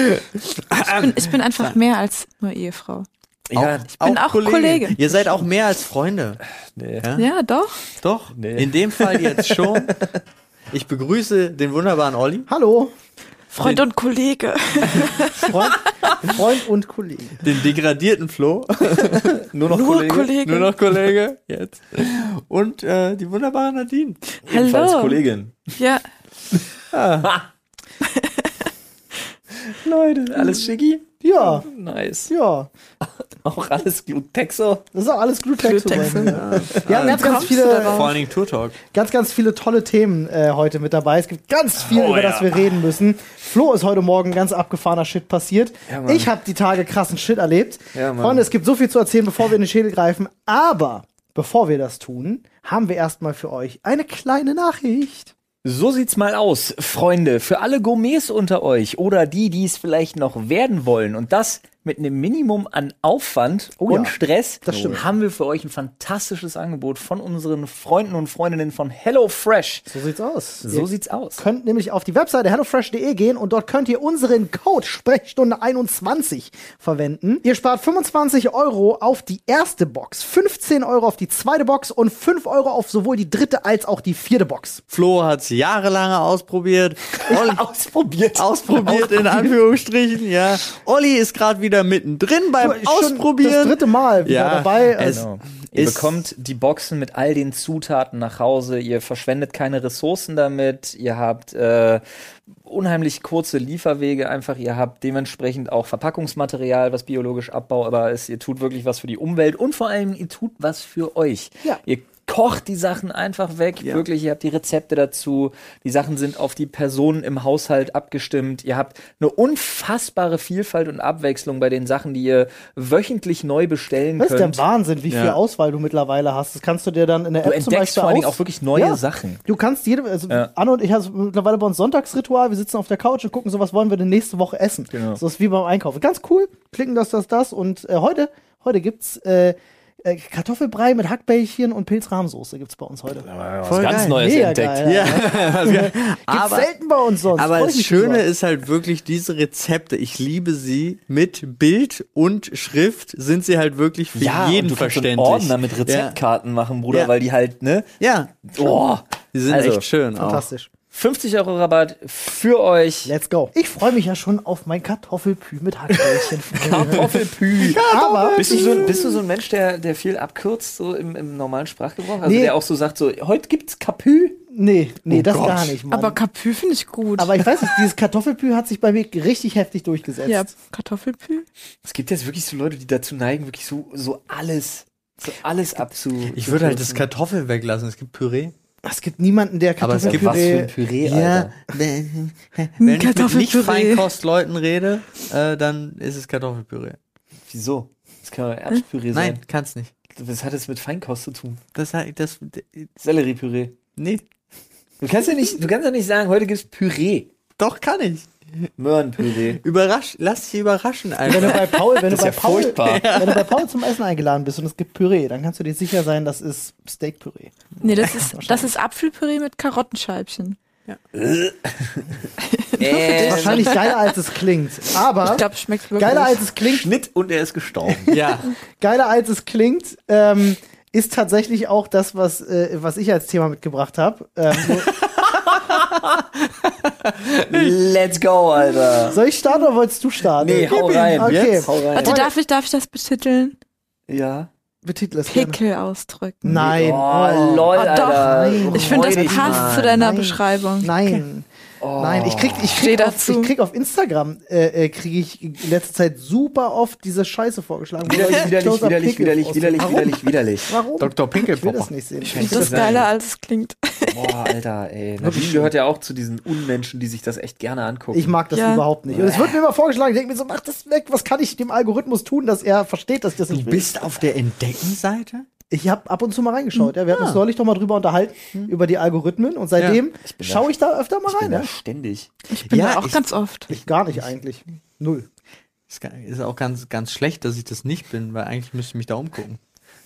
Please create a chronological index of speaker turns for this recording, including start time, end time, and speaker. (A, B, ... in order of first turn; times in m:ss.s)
0:00.7-0:01.8 A
0:00.8-0:03.1 B
0:03.5-0:03.9 C
0:03.5-0:06.4 A
0:04.0-0:05.0 B
0:06.8-0:07.1 C
0:07.0-0:07.3 A
0:07.2-0:07.8 B
0:08.0-0:10.0 A
0:08.3-0:09.9 C
0:10.7-0:12.5 A
0:12.5-0:12.9 D
0:13.5-0:15.7 B
0:14.9-0:17.5 D
0:17.4-0:19.4 A
0:19.4-0:20.3 C
0:19.7-0:20.8 B
0:20.4-0:24.2 A
0:24.4-0:25.2 B
0:24.5-0:25.7 C
0:25.8-0:26.0 B
0:26.9-0:27.3 A
0:28.0-0:28.6 B
0:29.6-0:32.3 C
0:31.2-0:31.7 D
0:32.3-0:32.7 D
0:33.4-0:34.8 C
0:34.9-0:38.2 D
0:35.6-0:38.2 B
0:36.0-0:38.8 A
0:36.6-0:36.9 C
0:38.9-0:55.3 D
0:41.8-0:42.5 C
0:45.9-0:46.3 C
0:47.9-0:48.5 C
0:55.6-1:09.9 C
1:03.8-1:05.0 D
1:09.9-1:10.9 D
1:10.6-1:11.4 C
1:11.4-1:24.8 D
1:24.9-1:27.6 A
1:27.2-1:29.5 C
1:28.4-1:36.1 A
1:32.6-1:35.3 D
1:35.1-2:04.6 C
2:04.2-2:23.3 D
2:05.1-2:05.4 A
2:07.4-2:09.4 C
2:14.9-2:15.2 C
2:23.2-2:25.1 C
2:23.6-2:24.3 A
2:24.0-2:28.2 D
2:24.8-2:26.7 A
2:27.3-2:36.2 A
2:34.2-2:37.9 C
2:38.0-2:38.8 A
2:38.5-2:39.9 C
2:39.3-2:40.5 A
2:40.2-2:40.7 D
2:40.9-2:43.1 C
2:43.1-2:47.2 D
2:46.5-2:54.4 C
2:47.6-2:49.0 A
2:47.8-2:49.1 D
2:52.2-2:52.6 D
2:54.5-2:56.2 D
2:55.1-2:55.8 A
2:55.9-2:57.8 B
2:57.2-3:00.5 D
3:00.2-3:01.5 B
3:01.8-3:07.1 C
3:06.3-3:08.5 A
3:08.8-3:10.7 D
3:09.8-3:17.0 A
3:10.0-3:11.5 C
3:12.8-3:14.0 B
3:17.5-3:19.4 C
3:19.1-3:19.9 A
3:20.1-3:21.6 C
3:21.8-3:22.9 A
3:23.0-3:23.8 C
3:24.0-3:24.2 A
3:25.0-3:27.3 C
3:27.6-3:28.3 A
3:28.8-3:29.6 C
3:29.5-3:32.0 A
3:31.2-3:38.7 D
3:31.4-3:33.2 C
3:32.8-3:33.6 A
3:37.8-3:40.6 B
3:41.1-3:42.1 C
3:42.4-3:44.2 B
3:42.8-3:43.8 C
3:43.1-3:45.4 D
3:45.2-3:46.4 B
3:46.0-3:46.9 D
3:46.6-3:48.2 C
3:47.9-3:55.0 D
3:48.1-3:48.5 A
3:55.4-3:56.2 C
3:57.2-3:59.2 C
3:59.1-3:59.7 B
3:59.1-4:02.3 D
4:00.4-4:02.3 C
4:00.7-4:01.7 A
4:02.0-4:03.6 B
4:04.1-4:04.5 C
4:04.8-4:05.6 D
4:05.3-4:06.4 B
4:06.4-4:23.0 D
4:06.5-4:10.1 C
4:07.8-4:10.9 B
4:11.8-4:12.8 C
4:12.8-4:13.5 B
4:18.0-4:20.7 C
4:21.0-4:21.9 A
4:22.2-4:23.1 C
4:22.4-4:24.3 B
4:24.0-4:28.4 C
4:25.2-4:25.7 D
4:28.1-4:34.1 D
4:28.5-4:28.8 B
4:29.1-4:29.6 C
4:33.5-4:35.5 A
4:35.7-4:41.7 D
4:36.8-4:37.4 A
4:40.2-4:40.7 C
4:41.3-4:42.3 C
4:42.5-4:43.7 B
4:42.7-4:43.2 A
4:43.7-4:45.3 D
4:45.9-4:49.6 A